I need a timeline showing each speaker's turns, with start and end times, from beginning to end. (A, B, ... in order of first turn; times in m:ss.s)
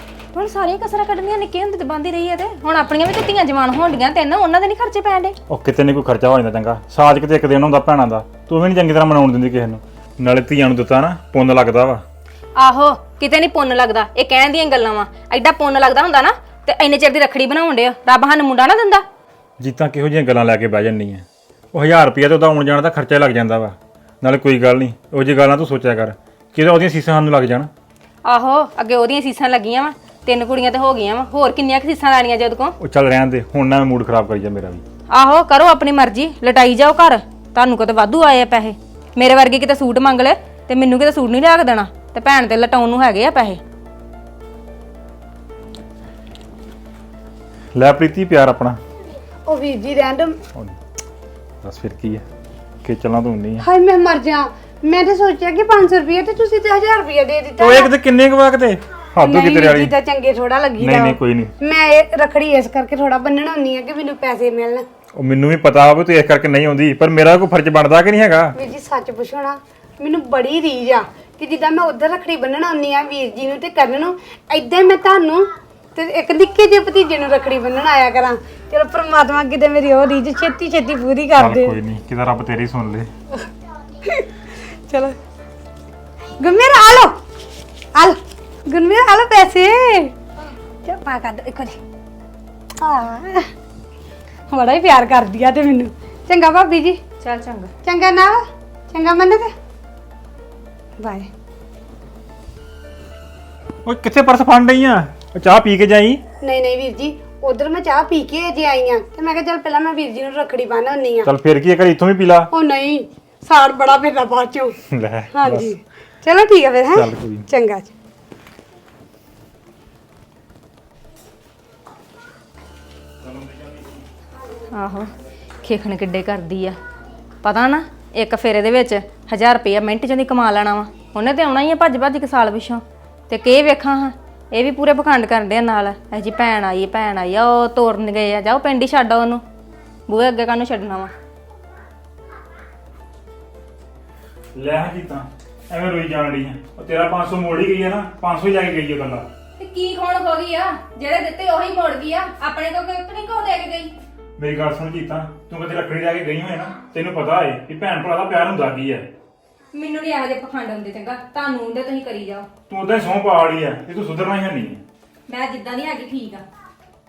0:00.3-0:05.4 A
0:05.5-0:12.0 B
0:12.6-0:19.0 A
0:19.6-0:27.7 B
0:28.2-0:32.8 A
0:32.8-0:34.8 B
0:35.1-0:43.6 A
0:47.7-0:48.8 B
0:49.5-0:50.4 C
0:51.6-0:52.2 B
0:52.8-0:53.6 B
0:53.6-0:57.9 C
0:57.6-0:59.9 B
0:59.2-1:04.8 C
1:00.8-1:01.5 B
1:05.2-1:08.6 B
1:08.6-1:21.8 C
1:21.4-1:23.1 B
1:24.9-1:25.2 C
1:26.4-1:27.2 C
1:28.0-1:30.1 C
1:30.8-1:31.8 C
1:32.8-1:33.5 C
1:34.5-1:37.0 C
1:37.2-1:37.7 A
1:37.8-1:39.5 C
1:41.0-1:41.3 C
1:43.8-1:46.2 B
1:46.4-1:51.3 C
1:51.2-1:52.5 B
1:52.5-1:54.8 C
1:54.9-1:55.7 B
1:55.3-1:57.9 C
1:56.9-1:57.5 B
2:03.2-2:04.0 B
2:04.7-2:06.8 A
2:07.4-2:19.4 A
2:20.1-2:21.1 A
2:24.6-2:29.3 B
2:29.6-2:33.9 A
2:34.4-2:39.1 B
2:39.7-2:42.5 A
2:42.7-2:44.8 B
2:45.3-2:46.4 A